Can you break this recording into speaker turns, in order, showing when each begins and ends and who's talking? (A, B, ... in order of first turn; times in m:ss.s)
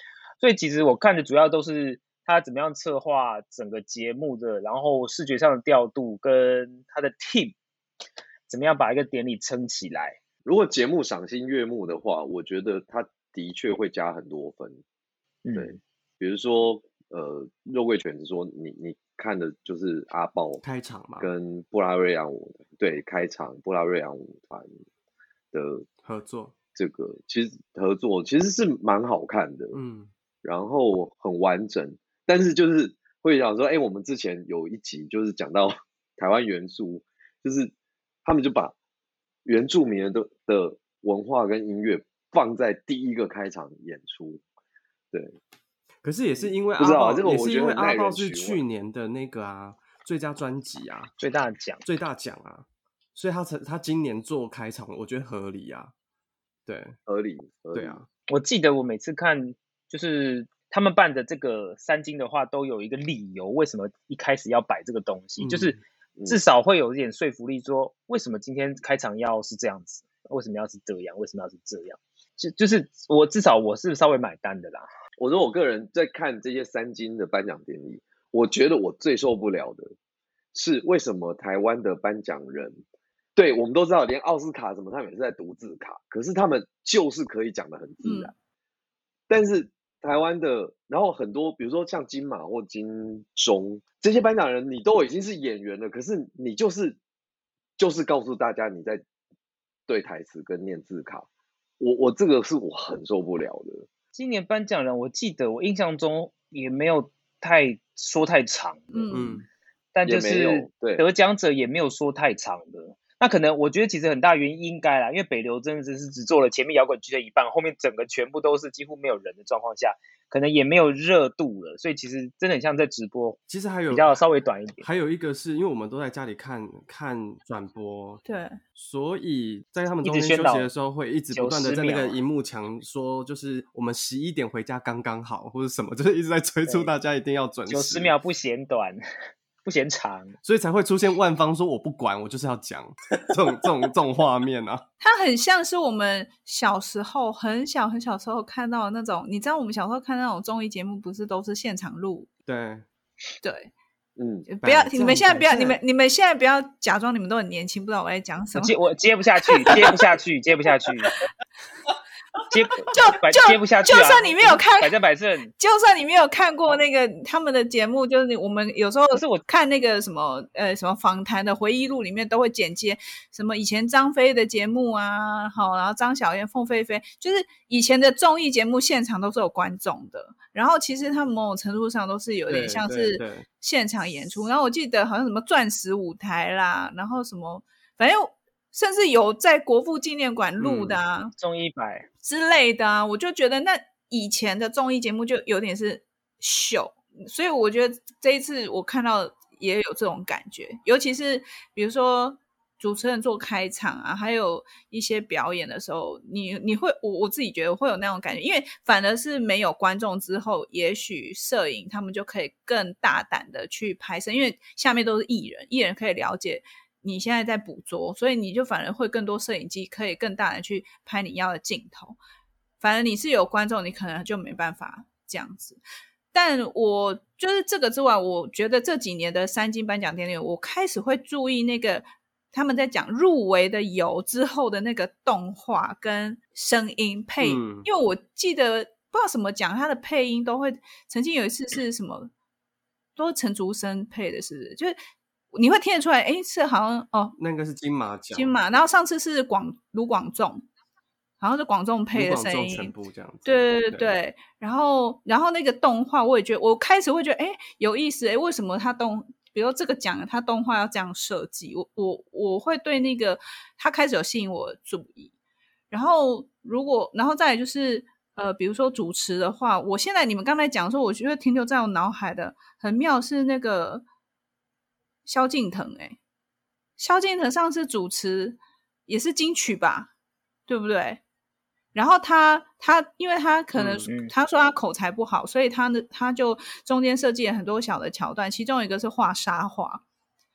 0:00.4-0:07.6 A
0:08.5-0:10.2 A
0:10.5-0:14.8 B
0:15.4-0:15.8 A
0:15.6-0:20.6 B
0:20.6-0:21.3 C
0:21.2-0:24.7 B
0:25.5-0:25.9 B
0:26.0-0:26.5 C
0:26.8-0:29.8 B
0:29.7-0:30.1 C
0:30.4-0:37.7 B
0:38.2-0:38.7 B
0:39.4-0:44.4 B
0:46.0-0:51.1 C
0:46.5-0:48.6 B
0:51.2-0:51.8 A
0:51.8-0:55.9 C
0:56.7-0:57.0 C
0:57.1-0:58.0 B
0:57.7-0:58.1 C
0:58.3-1:14.9 A
1:05.4-1:05.8 C
1:15.2-1:19.9 B
1:20.5-1:22.8 B
1:23.4-1:28.3 B
1:28.0-1:28.3 D
1:29.3-1:37.0 B
1:37.8-1:39.0 B
1:39.9-1:41.3 B
1:41.8-1:43.9 B
1:44.2-1:49.1 A
1:48.9-1:49.4 D
1:49.1-1:49.5 C
1:50.0-2:03.4 A
1:50.0-1:51.0 B
2:03.5-2:04.2 C
2:03.9-2:04.9 A
2:04.8-2:08.2 C
2:08.2-2:08.6 D
2:08.8-2:18.1 C
2:10.0-2:10.7 A
2:11.3-2:12.2 A
2:16.7-2:16.9 A
2:17.7-2:19.0 A
2:19.6-2:20.4 A
2:20.4-2:24.8 C
2:25.0-2:32.3 D
2:32.5-2:32.9 C
2:33.4-2:33.7 D
2:34.2-2:34.5 B
2:34.5-2:38.8 D
2:34.6-2:35.8 C
2:38.6-2:41.1 A
2:42.5-2:45.5 A
2:42.9-2:44.9 D
2:45.6-3:11.3 D
2:49.1-2:49.4 A
3:02.5-3:03.5 C
3:10.6-3:11.0 C
3:11.4-3:12.1 A
3:12.2-3:42.2 D
3:42.8-3:45.8 D
3:46.3-4:02.3 D
3:57.4-3:57.9 C
4:03.2-4:05.0 D
4:05.5-4:07.4 D
4:07.4-4:08.6 C
4:08.3-4:10.6 D
4:11.4-4:25.3 D
4:12.1-4:14.2 C
4:25.9-4:34.1 D
4:35.3-4:36.2 D
4:37.0-4:40.1 D
4:40.7-4:41.2 D
4:41.9-4:50.0 D
4:43.8-4:44.1 C
4:44.1-4:44.3 A